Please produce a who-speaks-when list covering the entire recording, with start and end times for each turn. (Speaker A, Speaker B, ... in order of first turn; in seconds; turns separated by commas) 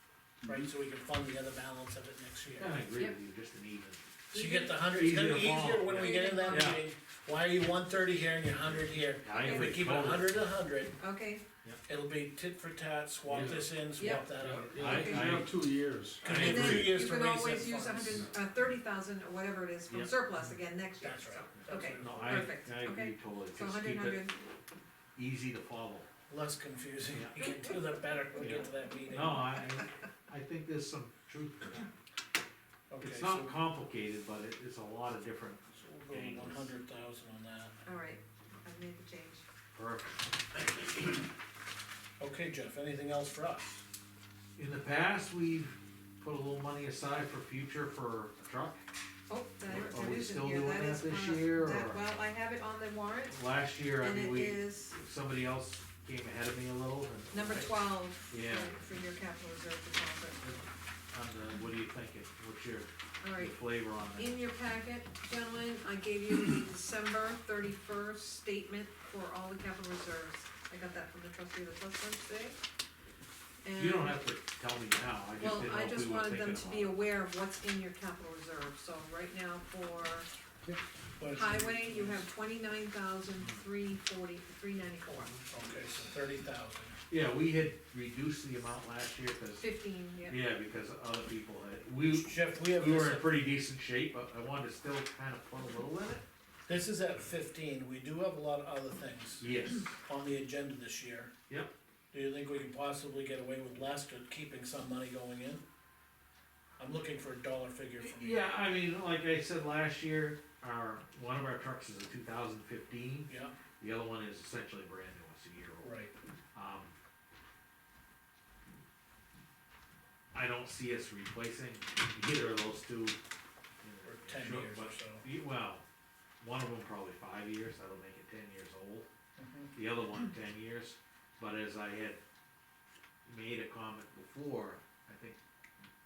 Speaker A: 0.4-2.8, Speaker B: 2.6-4.0, Speaker C: 4.3-4.9, Speaker A: 4.3-11.0, Speaker B: 4.8-6.8, Speaker C: 5.7-6.8, Speaker B: 9.2-10.4, Speaker C: 9.3-10.0, Speaker C: 11.0-11.4, Speaker A: 11.9-14.9, Speaker B: 13.3-13.6, Speaker C: 13.9-15.4, Speaker D: 14.4-16.8, Speaker B: 14.7-15.5, Speaker B: 16.2-16.9, Speaker A: 16.2-18.3, Speaker C: 16.2-24.3, Speaker A: 21.0-22.5, Speaker B: 21.7-24.3, Speaker B: 25.1-26.1, Speaker A: 26.3-29.5, Speaker B: 27.1-27.6, Speaker B: 28.4-31.9, Speaker A: 32.9-33.5, Speaker B: 33.0-36.7, Speaker A: 35.7-37.7, Speaker C: 37.8-39.4, Speaker B: 39.7-41.2, Speaker A: 42.2-43.8, Speaker B: 44.5-48.8, Speaker C: 49.3-53.4, Speaker B: 49.6-52.0, Speaker B: 53.3-57.7, Speaker C: 54.0-55.0, Speaker C: 57.3-60.6, Speaker B: 58.3-58.7, Speaker B: 61.1-64.4, Speaker C: 63.2-63.6, Speaker C: 64.1-72.6, Speaker C: 73.6-74.2, Speaker B: 73.8-77.0, Speaker C: 75.4-80.3, Speaker A: 81.2-82.2, Speaker C: 81.3-85.3, Speaker A: 85.5-87.0, Speaker B: 87.1-89.7, Speaker C: 89.6-90.4, Speaker B: 90.2-96.2, Speaker A: 92.1-93.3, Speaker A: 96.7-99.5, Speaker B: 99.4-99.9, Speaker A: 100.0-101.3, Speaker A: 102.1-105.6, Speaker A: 106.8-108.5, Speaker B: 108.0-113.3, Speaker A: 113.3-113.5, Speaker B: 113.8-115.9, Speaker A: 115.8-116.1, Speaker B: 116.5-116.9, Speaker B: 120.3-123.2, Speaker B: 123.8-125.8, Speaker A: 124.0-125.2, Speaker B: 126.4-129.1, Speaker A: 129.4-129.7, Speaker B: 129.7-132.2, Speaker B: 133.2-135.4